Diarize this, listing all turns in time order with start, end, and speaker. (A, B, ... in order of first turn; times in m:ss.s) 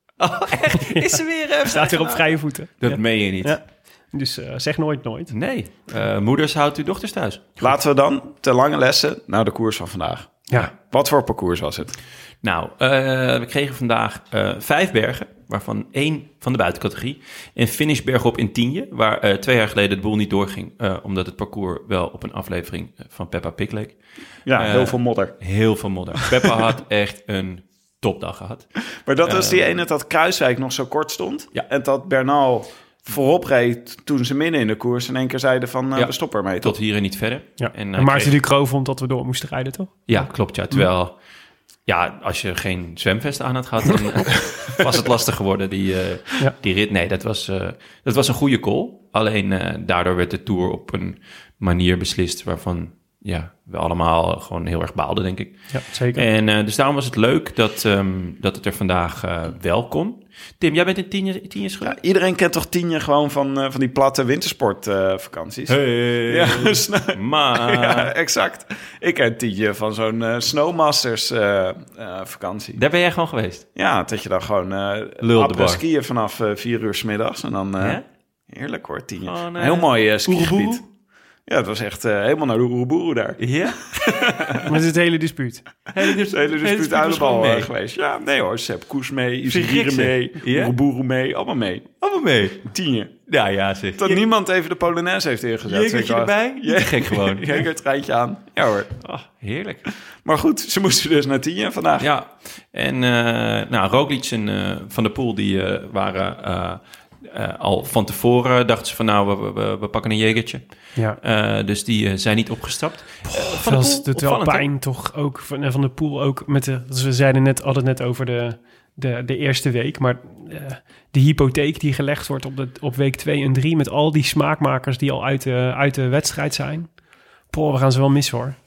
0:00.2-0:03.6 A
0:00.9-0:05.3 B
0:05.3-0:07.6 A
0:07.6-0:12.0 C
0:12.4-0:29.7 A
0:24.4-0:26.0 C
0:29.0-0:36.7 C
0:35.9-0:38.4 A
0:37.6-0:40.8 B
0:40.1-0:41.2 A
0:41.8-1:02.0 A
0:55.7-0:56.2 B
1:01.8-1:12.8 C
1:05.7-1:08.1 A
1:12.8-1:13.6 A
1:13.7-1:20.8 C
1:15.2-1:15.8 A
1:19.2-1:20.8 A
1:21.4-1:24.6 C
1:23.4-1:24.6 A
1:24.7-1:25.7 B
1:25.9-1:27.7 A
1:26.0-1:32.0 C
1:29.5-1:30.7 A
1:32.0-1:32.7 A
1:32.6-1:33.4 C
1:33.3-1:34.2 A
1:34.0-1:39.0 C
1:35.6-1:37.6 A
1:39.0-1:39.9 A
1:40.0-1:42.1 C
1:42.0-1:54.7 A
1:53.3-2:07.0 B
2:07.5-2:08.6 B